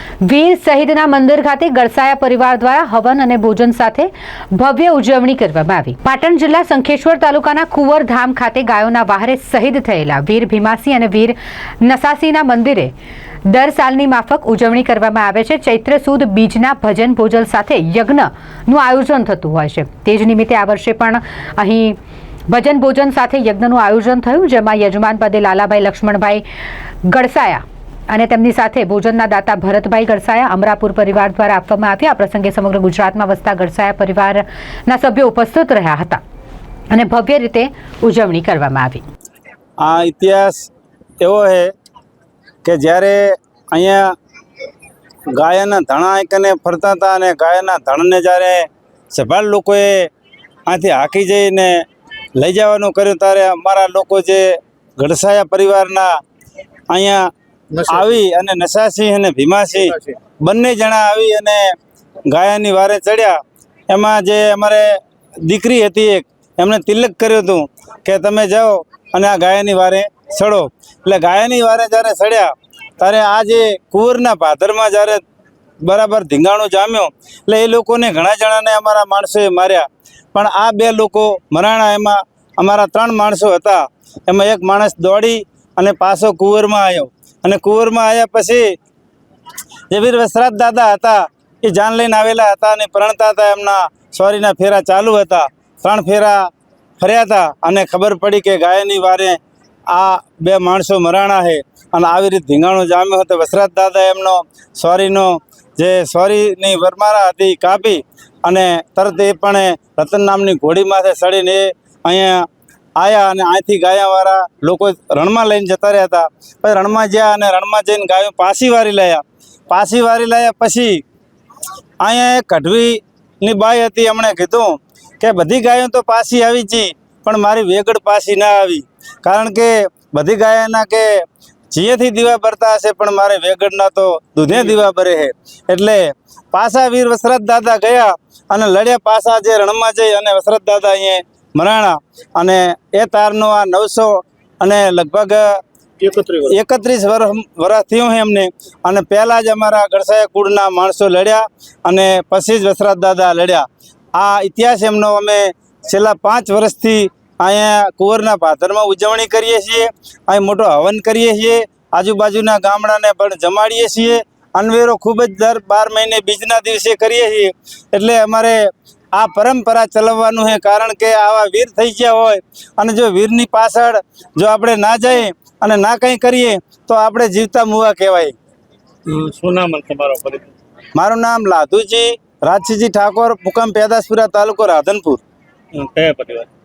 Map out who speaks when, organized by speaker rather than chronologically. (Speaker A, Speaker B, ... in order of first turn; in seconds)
Speaker A: 0.2-12.9, 13.5-22.0, 22.5-26.4, 27.0-36.2, 36.9-39.0
Speaker B: 39.8-40.7, 41.2-41.7, 42.6-44.1, 45.3-50.1, 50.7-51.9, 52.4-56.2, 56.9-57.3, 57.9-61.8, 62.3-75.2, 75.8-88.7, 89.9-99.4, 99.9-112.5, 113.0-121.0, 122.0-145.6, 146.5-178.3, 180.9-185.2
Speaker C: 57.7-58.1, 146.0-146.5, 179.1-180.5, 185.7-186.5